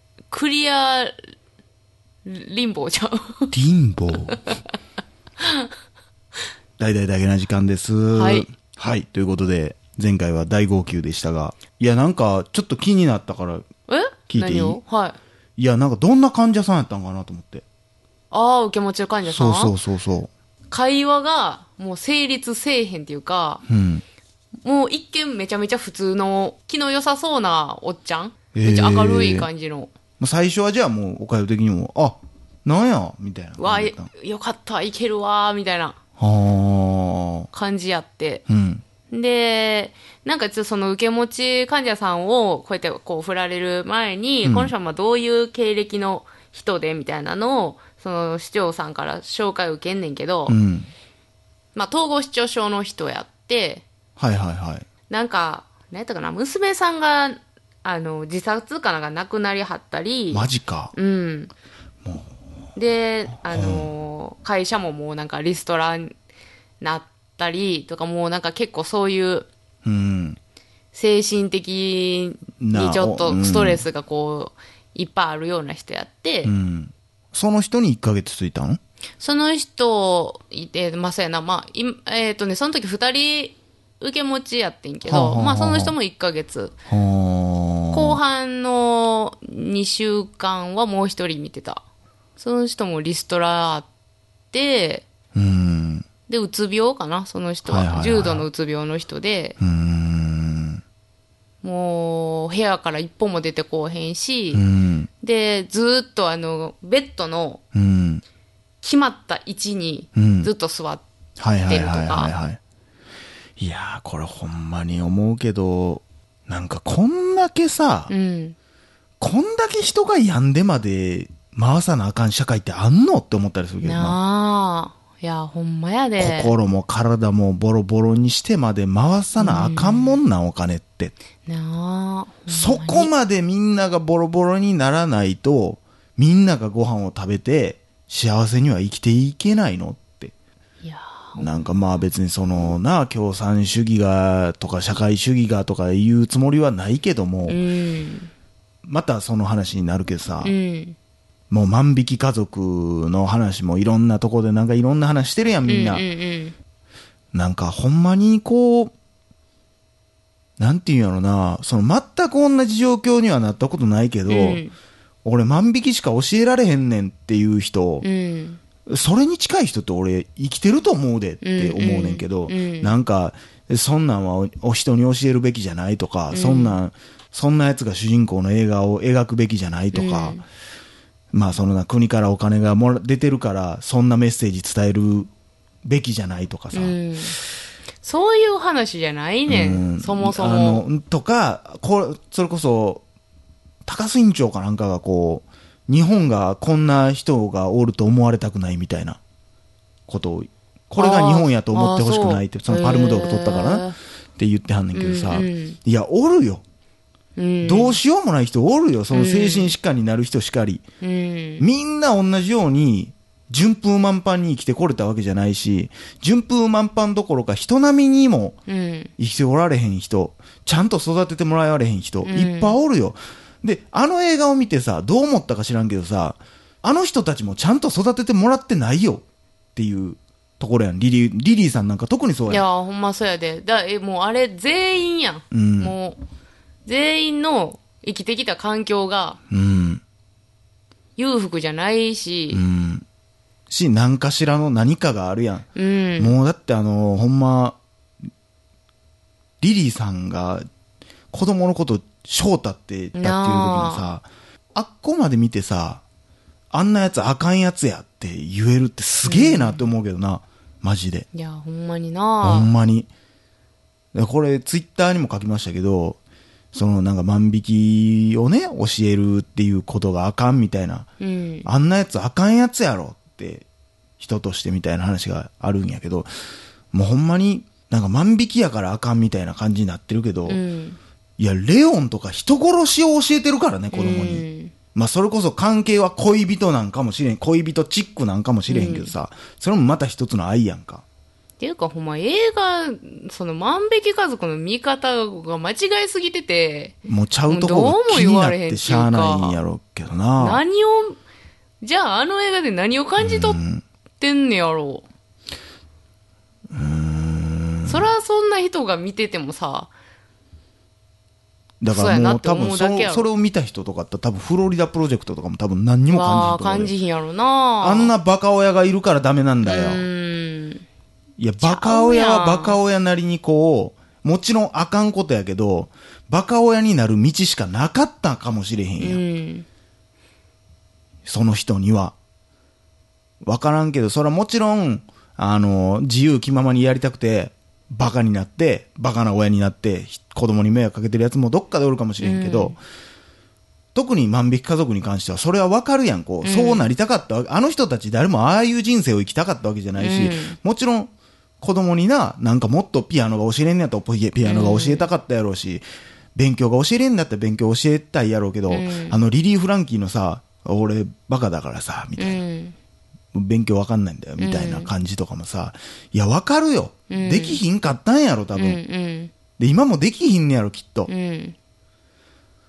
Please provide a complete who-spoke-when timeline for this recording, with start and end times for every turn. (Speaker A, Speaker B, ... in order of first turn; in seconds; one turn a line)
Speaker A: 0.3-1.3
Speaker A: 2.2-3.5
Speaker B: 3.5-4.4
Speaker A: 5.4-5.7
Speaker B: 6.8-13.7
Speaker A: 8.1-8.5
Speaker A: 13.9-15.2
Speaker B: 14.3-14.8
Speaker B: 15.6-17.6
Speaker A: 18.3-19.7
Speaker B: 19.2-20.3
Speaker A: 20.7-23.6
Speaker B: 23.7-24.0
Speaker A: 24.6-29.9
Speaker B: 28.5-29.5
Speaker B: 30.2-34.1
Speaker A: 33.6-36.0
Speaker B: 36.2-37.5
Speaker A: 37.5-38.4
Speaker B: 38.5-38.8
Speaker A: 39.1-50.6
Speaker B: 44.4-44.7
Speaker B: 50.5-50.9
Speaker A: 51.7-53.8
Speaker B: 54.2-54.9
Speaker A: 55.1-61.5
Speaker B: 60.3-60.9
Speaker B: 62.0-62.3
Speaker A: 62.8-66.1
Speaker B: 63.4-63.9
Speaker A: 66.8-69.5
Speaker B: 69.8-70.4
Speaker A: 70.9-76.5
Speaker B: 72.6-73.9
Speaker B: 76.4-78.8
Speaker A: 79.2-86.8
Speaker B: 85.0-86.0
Speaker B: 86.9-88.2
Speaker A: 87.9-91.8
Speaker A: 92.4-93.9
Speaker A: 94.5-95.1
Speaker B: 95.3-96.1
Speaker A: 96.3-99.6
Speaker B: 97.7-98.5
Speaker B: 99.6-100.8
Speaker A: 101.6-104.6
Speaker B: 104.5-105.1
Speaker A: 105.2-107.6
Speaker B: 107.7-108.2
Speaker A: 108.8-111.0
Speaker B: 110.2-110.5
Speaker B: 111.4-112.6
Speaker A: 111.7-112.3
Speaker B: 113.6-118.1
Speaker A: 118.1-118.6
Speaker B: 119.2-124.2
Speaker A: 123.8-126.5
Speaker B: 126.2-131.2
Speaker A: 129.4-130.2
Speaker A: 131.5-133.1
Speaker B: 132.5-140.3
Speaker A: 140.8-141.7
Speaker B: 141.4-147.6
Speaker A: 147.5-148.3
Speaker B: 148.8-150.6
Speaker A: 150.4-151.0
Speaker B: 151.5-156.1
Speaker A: 155.7-156.6
Speaker B: 157.3-158.9
Speaker B: 160.6-164.6
Speaker A: 164.3-164.7
Speaker B: 165.2-168.1
Speaker A: 168.0-168.6
Speaker B: 168.9-180.4
Speaker A: 171.4-172.9
Speaker A: 176.3-176.8
Speaker A: 179.9-180.4
Speaker B: 181.3-185.3
Speaker B: 185.8-187.0
Speaker A: 186.7-187.4
Speaker A: 188.0-190.8
Speaker B: 189.5-193.0
Speaker B: 193.9-199.2
Speaker B: 200.1-206.6
Speaker A: 201.0-204.0
Speaker A: 204.9-205.8
Speaker A: 207.4-208.0
Speaker B: 207.6-210.8
Speaker A: 209.1-209.7
Speaker A: 211.0-211.6
Speaker B: 211.6-218.6
Speaker A: 218.7-219.1
Speaker B: 219.2-229.2
Speaker A: 222.2-222.8
Speaker B: 229.8-232.7
Speaker A: 232.5-236.2
Speaker B: 235.5-235.9
Speaker A: 236.8-239.4
Speaker B: 239.5-240.0
Speaker A: 241.2-242.6
Speaker B: 242.5-243.1
Speaker B: 243.7-247.8
Speaker A: 245.8-246.3
Speaker B: 249.6-250.7
Speaker B: 251.3-256.0
Speaker A: 253.1-254.1
Speaker B: 256.7-261.3
Speaker A: 259.2-259.9
Speaker A: 261.3-262.7
Speaker B: 262.4-263.1
Speaker B: 264.1-266.2
Speaker B: 266.7-271.1
Speaker A: 271.2-271.7
Speaker B: 271.6-273.7
Speaker B: 274.2-276.3
Speaker B: 276.9-280.6
Speaker A: 280.5-281.0
Speaker B: 281.4-291.0
Speaker A: 283.9-284.7
Speaker A: 288.7-289.1
Speaker A: 291.6-296.9
Speaker B: 297.1-300.6
Speaker A: 297.5-299.6
Speaker A: 300.4-301.2
Speaker A: 301.8-303.6
Speaker B: 303.2-303.8
Speaker A: 304.2-305.1
Speaker B: 306.7-308.1
Speaker A: 307.9-309.9
Speaker B: 311.8-316.9
Speaker A: 311.9-313.3
Speaker A: 316.1-318.1
Speaker B: 317.8-320.1
Speaker A: 319.6-320.8
Speaker B: 321.4-329.2
Speaker A: 321.6-322.8
Speaker A: 329.0-329.7
Speaker B: 331.2-332.2
Speaker B: 333.4-342.8
Speaker A: 342.2-342.8
Speaker B: 343.9-362.4
Speaker A: 346.4-346.9
Speaker A: 350.0-350.6
Speaker A: 354.4-355.1
Speaker A: 358.7-359.2
Speaker A: 362.2-362.8
Speaker B: 363.3-368.8
Speaker A: 364.4-364.9
Speaker A: 367.1-367.6
Speaker A: 368.6-369.3
Speaker B: 369.6-371.1
Speaker A: 371.1-371.6